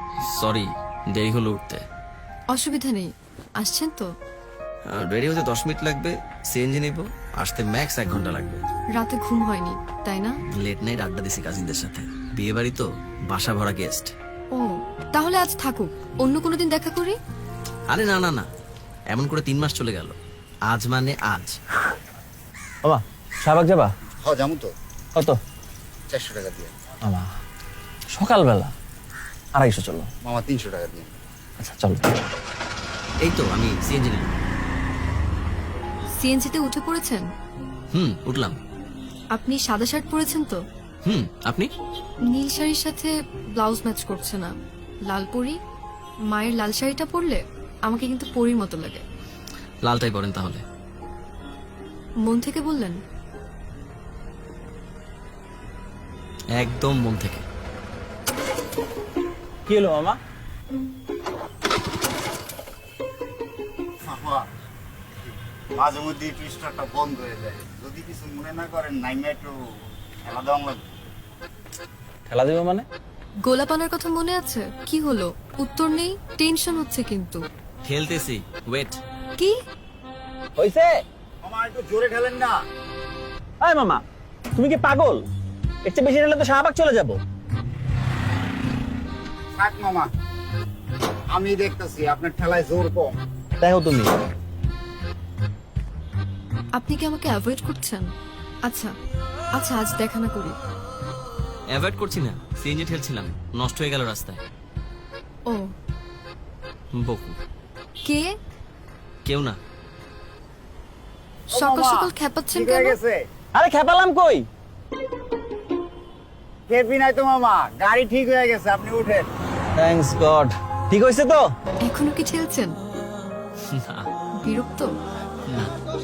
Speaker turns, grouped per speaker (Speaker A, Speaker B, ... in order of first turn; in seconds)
Speaker A: 0.2-1.8, 4.9-8.6, 10.5-14.1, 17.9-18.5, 19.1-20.1, 20.7-21.6, 33.2-34.3, 37.9-38.6, 41.0-41.7, 49.8-50.6, 56.5-57.5, 77.8-79.0, 101.7-104.4, 107.0-107.4, 109.2-109.6, 123.7-124.1
Speaker B: 2.5-4.1, 8.9-10.3, 14.5-17.2, 36.2-37.3, 39.3-40.6, 42.3-44.5, 45.1-45.6, 46.3-49.0, 52.2-53.0, 73.4-77.4, 96.8-98.1, 98.7-98.9, 99.5-100.5, 111.5-113.0, 121.8-122.7, 124.4-124.9
Speaker C: 22.8-23.9, 28.1-28.7, 29.6-30.1, 31.6-32.0, 59.7-60.1, 72.3-72.8, 80.6-80.9, 83.6-84.0, 84.5-85.2, 85.8-87.2, 93.6-94.1, 113.5-114.4, 119.8-121.4
Speaker D: 24.2-24.7, 26.1-26.7, 30.2-31.1, 64.0-64.4, 65.7-69.5, 70.2-70.9, 81.4-82.6, 89.5-90.1, 91.3-93.2, 111.5-113.3, 116.7-119.3